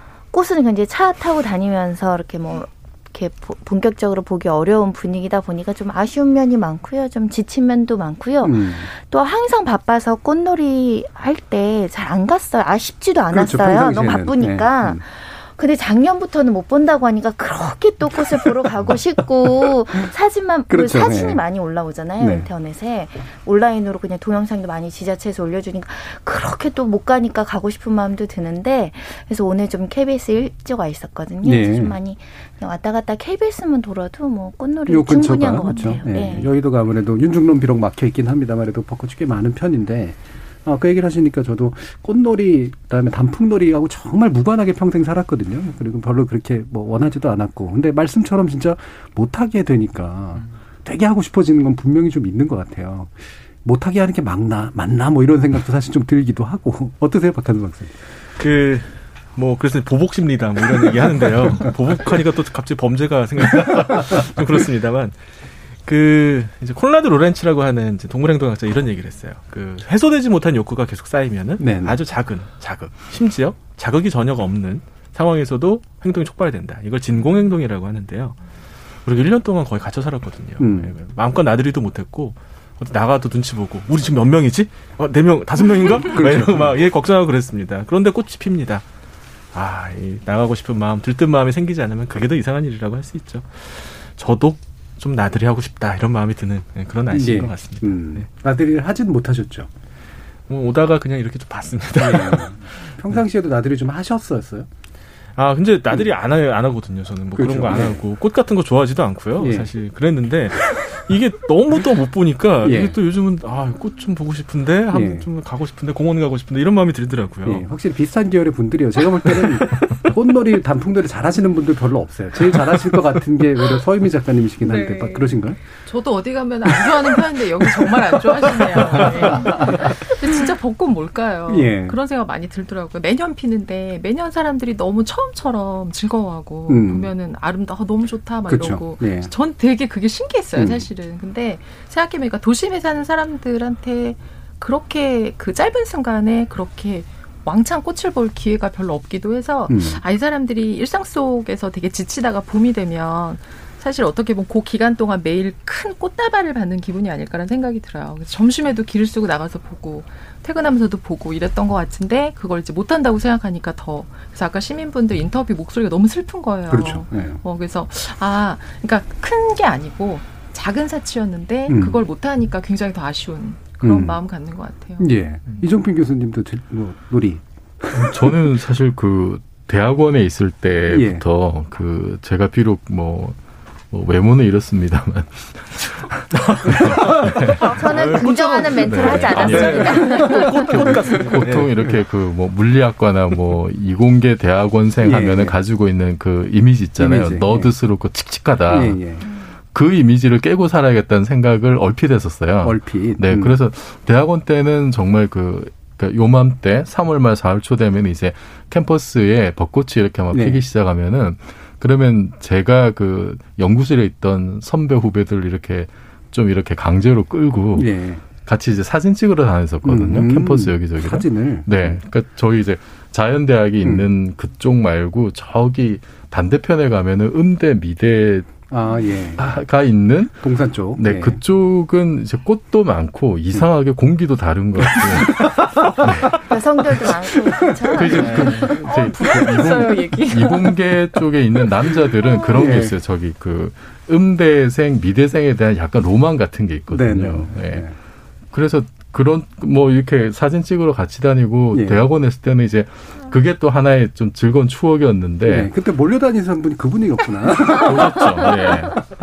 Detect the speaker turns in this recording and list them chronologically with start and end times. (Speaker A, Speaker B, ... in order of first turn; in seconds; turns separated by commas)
Speaker A: 0.3-36.5, Speaker B: 8.4-8.9, Speaker B: 13.3-15.0, Speaker B: 20.7-21.4, Speaker B: 22.2-22.5, Speaker B: 31.4-31.9, Speaker B: 34.9-57.9, Speaker C: 58.4-65.2, Speaker C: 65.8-78.4, Speaker B: 71.6-72.0, Speaker C: 79.0-88.8, Speaker B: 80.6-80.9, Speaker B: 86.1-86.7, Speaker C: 89.5-98.2, Speaker B: 97.1-99.7, Speaker C: 100.5-102.5, Speaker B: 102.0-104.7, Speaker C: 105.3-117.6, Speaker B: 107.3-108.0, Speaker B: 109.4-109.7, Speaker B: 112.6-113.0, Speaker B: 114.9-115.3, Speaker B: 117.4-125.6, Speaker D: 124.6-175.1, Speaker B: 127.6-130.0, Speaker B: 131.5-132.0, Speaker B: 136.7-137.1, Speaker B: 138.5-139.3, Speaker B: 140.6-140.9, Speaker B: 149.7-150.0, Speaker B: 166.7-167.4, Speaker B: 171.7-172.0, Speaker B: 173.8-174.2, Speaker B: 175.0-178.4, Speaker E: 177.9-183.4, Speaker B: 180.9-181.2, Speaker E: 183.9-187.8, Speaker A: 187.6-190.6, Speaker C: 187.8-191.7, Speaker E: 188.8-199.0, Speaker B: 189.5-192.0, Speaker B: 195.0-195.6, Speaker B: 197.0-197.7, Speaker B: 198.7-199.2, Speaker E: 199.7-228.6, Speaker B: 202.6-203.6, Speaker B: 210.3-210.6, Speaker B: 217.7-218.2, Speaker B: 219.8-222.0, Speaker B: 223.8-224.1, Speaker B: 228.7-229.5, Speaker E: 229.3-236.4, Speaker B: 230.4-231.4, Speaker B: 234.8-236.3, Speaker A: 236.5-238.7, Speaker B: 237.8-238.6, Speaker E: 237.9-247.8, Speaker D: 238.1-241.0, Speaker D: 242.2-242.6, Speaker B: 242.4-243.0, Speaker B: 246.9-247.9, Speaker E: 248.5-255.7, Speaker B: 251.7-252.0, Speaker B: 255.4-258.8, Speaker E: 257.6-259.0